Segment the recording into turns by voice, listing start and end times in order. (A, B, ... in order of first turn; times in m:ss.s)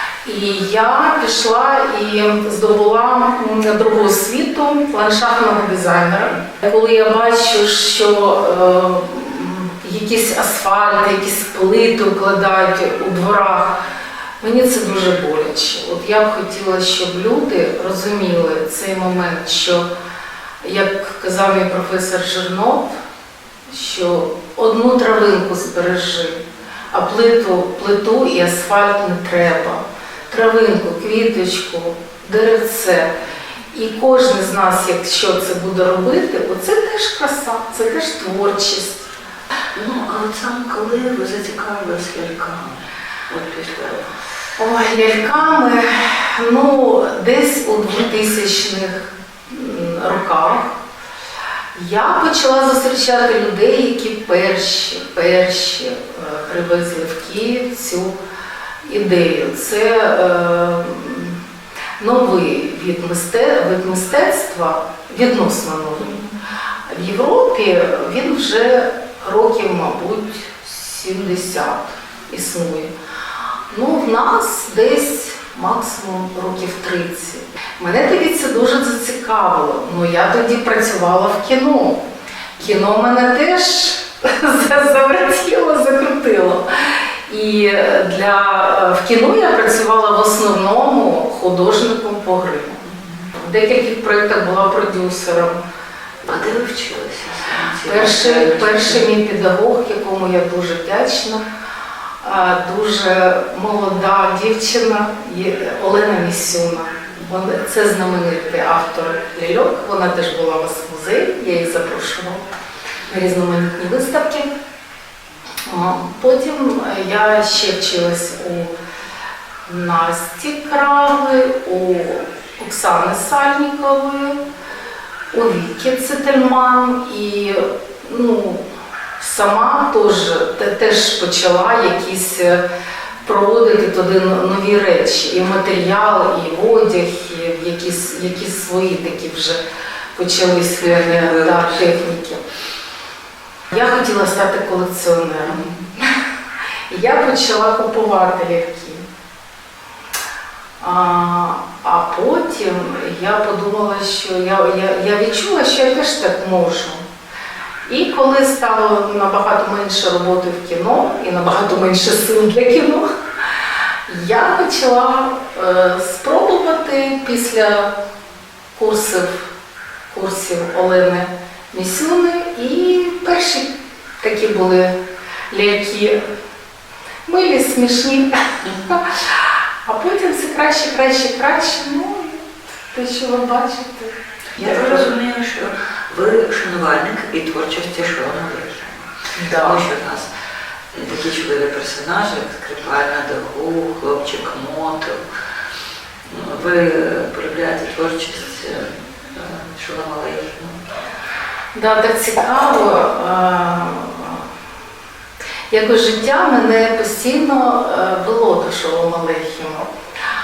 0:00.2-0:13.8 A
0:14.4-0:19.9 A
0:20.6-0:22.9 A
0:23.7-0:33.1 A
0:33.7-0:39.1 A
0:39.8-0:44.2 B
0:44.6-0:50.8 A
0:51.7-0:58.2 A
0:58.8-1:01.4 A
1:02.0-1:06.3 A
1:06.9-1:12.9 A
1:13.7-1:22.0 A
1:22.6-1:26.7 A
1:27.3-1:32.8 A
1:33.3-1:35.6 A
1:36.2-1:39.0 B
1:37.8-1:41.4 A
1:42.2-1:52.4 A
1:53.1-1:54.5 A
1:55.6-1:58.7 A
1:59.6-2:04.4 A
2:05.3-2:08.6 A
2:09.2-2:12.6 A
2:13.2-2:19.6 A
2:20.2-2:22.4 A
2:20.8-2:21.9 B
2:23.7-2:26.0 A
2:26.9-2:29.0 A
2:30.8-2:37.0 A
2:37.9-2:43.0 A
2:44.1-2:47.9 A
2:48.8-2:49.5 A
2:50.1-2:53.7 A
2:54.2-2:54.9 A
2:55.5-2:56.2 A
2:57.2-3:05.1 A
3:04.6-3:10.3 B
3:09.4-3:09.8 A
3:10.9-3:15.2 B
3:16.2-3:20.8 B
3:21.7-3:24.4 A
3:25.7-3:29.9 A